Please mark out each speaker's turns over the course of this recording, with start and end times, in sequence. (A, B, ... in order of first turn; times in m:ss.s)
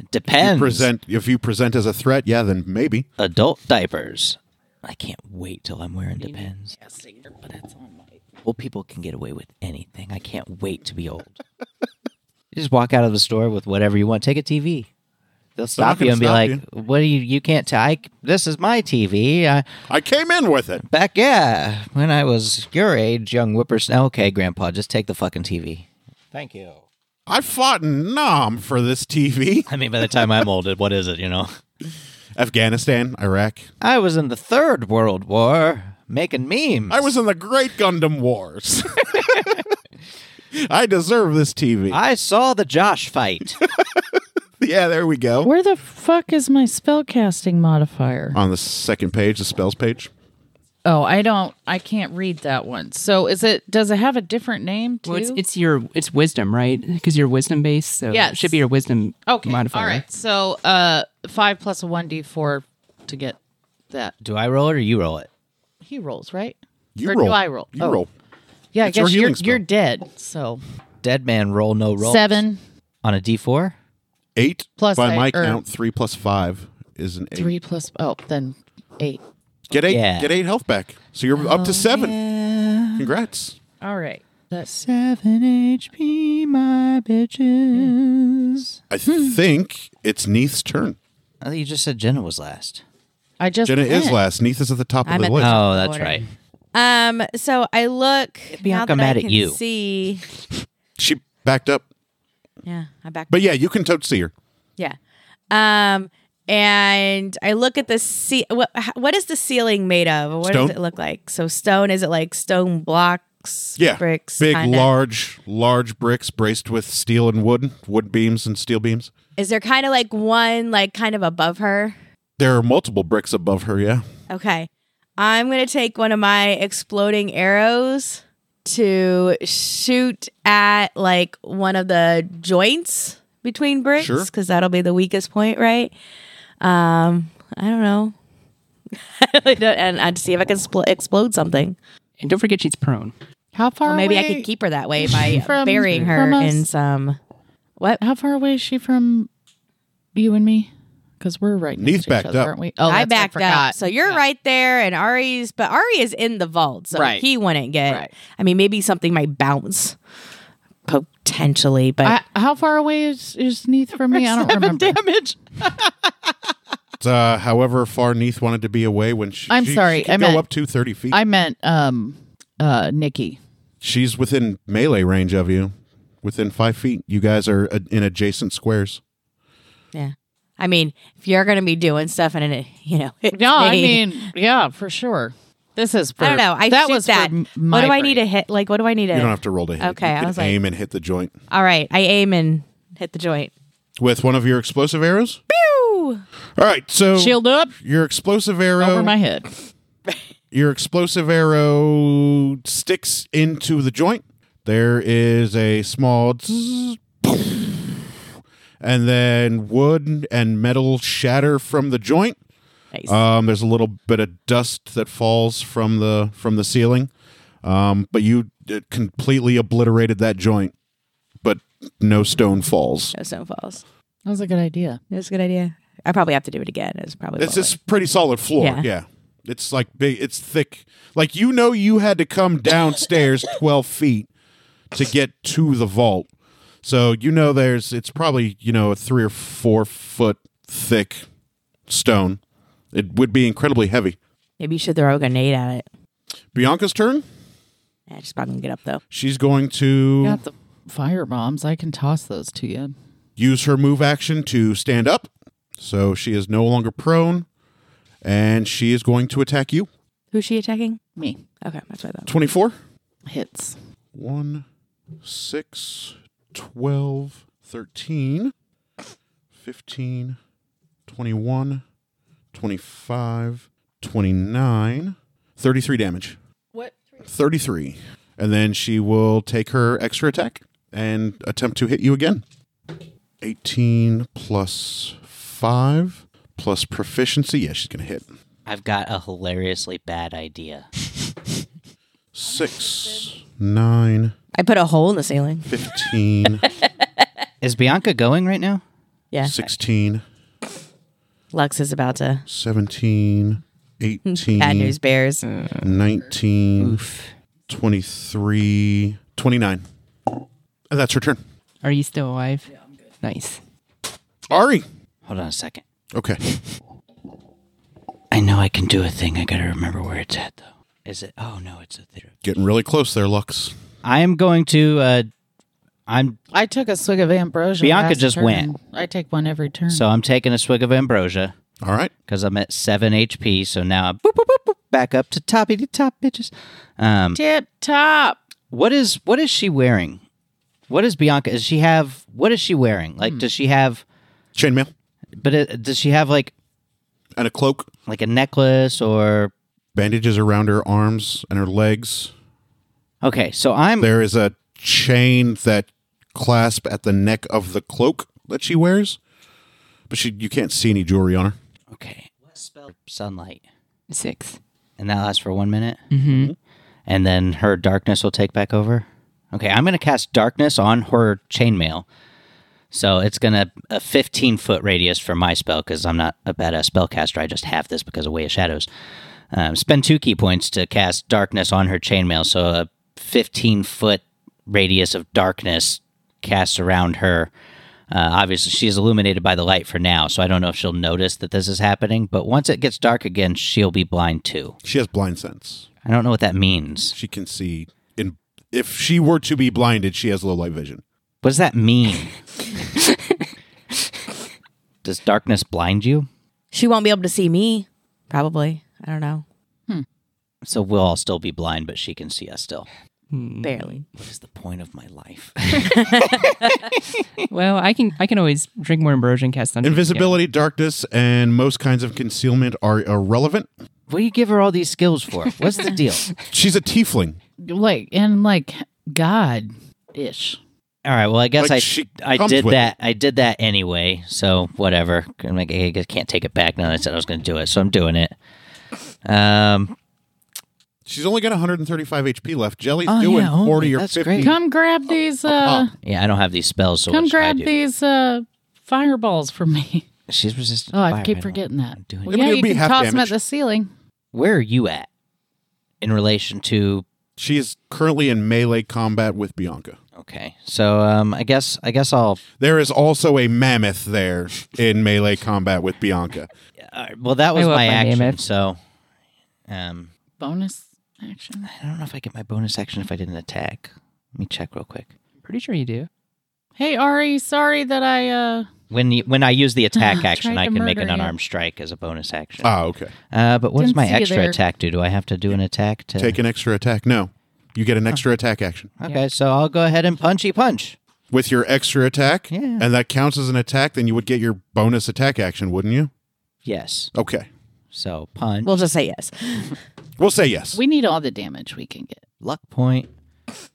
0:00.1-0:00.9 A
0:00.4-0:03.1 B
0:03.2-0:06.7 A
0:06.4-0:08.2 C
0:08.4-0:11.4 A
0:12.5-0:14.9 A
0:15.6-0:19.6 A
0:15.8-0:16.6 B
0:19.9-0:20.8 B
0:20.8-0:26.8 A
0:27.3-0:30.2 B
0:29.7-0:31.5 A
0:32.4-0:33.7 B
0:33.8-0:37.1 A
0:36.9-0:39.6 B
0:40.5-0:42.0 B
0:41.9-0:43.6 A
0:43.6-0:45.5 B
0:45.4-0:48.4 C
0:48.3-0:50.1 B
0:50.8-0:55.4 C
0:55.0-1:00.0 D
0:58.1-0:58.6 C
0:59.3-1:03.4 C
1:04.2-1:05.3 A
1:05.8-1:08.0 C
1:07.0-1:08.1 B
1:08.7-1:10.6 C
1:08.8-1:09.6 B
1:11.0-1:12.4 A
1:12.0-1:12.6 C
1:13.0-1:13.8 A
1:14.4-1:17.5 B
1:14.8-1:15.6 C
1:17.4-1:19.2 C
1:19.7-1:22.2 B
1:19.9-1:20.3 A
1:21.4-1:23.1 A
1:23.0-1:23.6 B
1:23.8-1:24.7 C
1:24.6-1:28.8 A
1:28.9-1:31.0 B
1:29.1-1:29.4 C
1:31.4-1:32.8 A
1:33.4-1:34.2 C
1:33.7-1:35.6 B
1:35.0-1:36.2 E
1:35.4-1:36.3 A
1:36.7-1:40.3 E
1:38.5-1:39.6 A
1:41.0-1:41.8 B
1:42.6-1:43.4 E
1:43.3-1:44.3 B
1:45.5-1:54.9 E
1:50.4-1:50.8 B
1:53.8-1:59.1 B
1:59.4-2:02.0 E
2:02.4-2:04.0 B
2:04.3-2:16.0 E
2:14.0-2:14.3 B
2:16.6-2:18.2 E
2:18.9-2:21.8 E
2:22.2-2:23.1 D
2:23.5-2:24.5 C
2:23.8-2:27.2 E
2:25.0-2:26.7 C
2:28.0-2:29.3 C
2:30.2-2:34.2 C
2:31.8-2:32.5 B
2:32.9-2:40.0 E
2:36.9-2:37.2 C
2:40.9-2:42.2 E
2:42.0-2:45.0 C
2:44.8-2:45.3 A
2:47.0-2:51.2 B
2:49.5-2:50.5 C
2:51.1-2:53.4 C
2:53.8-2:59.0 B
2:59.9-3:04.1 E
3:03.3-3:08.2 C
3:06.2-3:10.6 E
3:09.1-3:11.3 B
3:11.5-3:13.5 E
3:14.0-3:15.4 B
3:15.5-3:16.2 E
3:16.6-3:19.2 B
3:17.2-3:17.8 C
3:18.8-3:19.5 C
3:20.5-3:27.9 B
3:28.8-3:32.4 B
3:32.9-3:33.2 E
3:33.1-3:37.1 B
3:37.6-3:40.7 B
3:41.4-3:43.2 B
3:43.1-3:43.8 E
3:44.3-3:45.0 C
3:45.1-3:47.7 E
3:47.4-3:54.3 B
3:48.6-3:48.9 E
3:54.9-3:56.3 B
3:56.8-4:01.3 B
4:01.9-4:02.4 B
4:02.9-4:04.2 B
4:04.6-4:05.9 E
4:06.5-4:07.2 B
4:08.1-4:09.0 E
4:09.1-4:10.4 B
4:10.2-4:12.9 C
4:13.4-4:17.5 B
4:18.2-4:19.9 B
4:20.3-4:21.0 E
4:21.6-4:22.3 E
4:22.3-4:22.8 B
4:23.3-4:23.8 C
4:24.1-4:24.6 B
4:25.2-4:28.5 B
4:29.6-4:30.4 B
4:31.1-4:31.8 B
4:32.5-4:36.4 B
4:36.7-4:37.0 C
4:37.2-4:42.4 B
4:43.4-4:48.3 B
4:48.7-4:50.9 A
4:52.3-4:54.3 B
4:54.6-4:56.0 E
4:55.7-4:56.6 B
4:56.6-4:57.1 E
4:57.6-4:58.8 A
4:59.3-4:59.6 E
4:59.4-5:00.2 B
5:01.5-5:02.4 E
5:02.5-5:05.0 B
5:04.3-5:05.4 E
5:05.4-5:05.9 D
5:05.8-5:07.0 B
5:06.8-5:07.3 D
5:07.7-5:09.9 B
5:10.9-5:11.4 B
5:11.8-5:13.6 D
5:14.5-5:14.9 B
5:15.2-5:15.8 A
5:16.1-5:16.4 B
5:18.3-5:22.4 A
5:22.4-5:23.7 B
5:24.0-5:25.3 A
5:26.1-5:26.4 A
5:26.5-5:30.0 C
5:27.8-5:28.7 A
5:29.9-5:31.6 A
5:31.8-5:32.1 B
5:32.3-5:37.4 A
5:37.3-5:38.4 C
5:38.7-5:40.2 A
5:40.9-5:44.0 A
5:44.6-5:44.9 B
5:45.4-5:46.5 A
5:47.4-5:47.9 B
5:48.1-5:49.5 A
5:50.0-5:52.3 B
5:53.2-5:54.1 A
5:54.0-5:59.2 B
6:00.1-6:01.6 B
6:01.9-6:03.6 A
6:04.1-6:04.6 D
6:05.0-6:06.0 A
6:06.1-6:06.5 D
6:06.3-6:06.6 B
6:07.1-6:12.0 A
6:12.9-6:18.9 A
6:19.5-6:27.5 A
6:28.1-6:34.8 A
6:34.8-6:35.9 B
6:36.0-6:37.2 A
6:37.1-6:41.0 B
6:41.4-6:42.3 A
6:43.0-6:43.5 D
6:45.0-6:46.3 A
6:46.7-6:49.4 E
6:50.6-6:52.9 A
6:53.3-6:54.0 D
6:53.6-6:54.0 E
6:54.2-6:57.0 A
6:55.9-6:56.8 E
6:57.5-7:00.4 D
6:59.8-7:03.7 B
7:04.1-7:06.3 A
7:06.5-7:07.4 B
7:07.6-7:10.6 C
7:11.0-7:18.3 A
7:11.6-7:12.9 B
7:19.2-7:20.0 A
7:21.1-7:24.6 B
7:23.1-7:24.5 A
7:24.4-7:25.9 C
7:25.5-7:25.9 B
7:26.0-7:27.7 A
7:27.1-7:30.1 C
7:30.3-7:32.4 A
7:30.9-7:33.9 C
7:32.3-7:33.4 B
7:34.3-7:35.1 A
7:36.0-7:37.0 A
7:37.4-7:40.0 B
7:40.2-7:42.4 A
7:42.6-7:46.5 B
7:46.8-7:48.8 A
7:47.5-7:48.4 D
7:49.7-7:50.1 A
7:50.4-7:51.7 C
7:51.6-7:55.1 A
7:55.4-7:56.1 D
7:56.8-7:58.7 C
7:58.9-8:02.7 A
7:59.9-8:01.3 C
8:02.6-8:03.1 B
8:03.3-8:06.4 A
8:03.8-8:04.6 C
8:06.2-8:08.9 B
8:09.0-8:11.0 A
8:11.3-8:16.1 B
8:12.5-8:12.9 A
8:16.6-8:17.1 A
8:17.2-8:17.5 B
8:17.9-8:18.7 A
8:18.6-8:19.8 E
8:20.2-8:20.8 B
8:20.7-8:22.2 C
8:22.4-8:23.1 A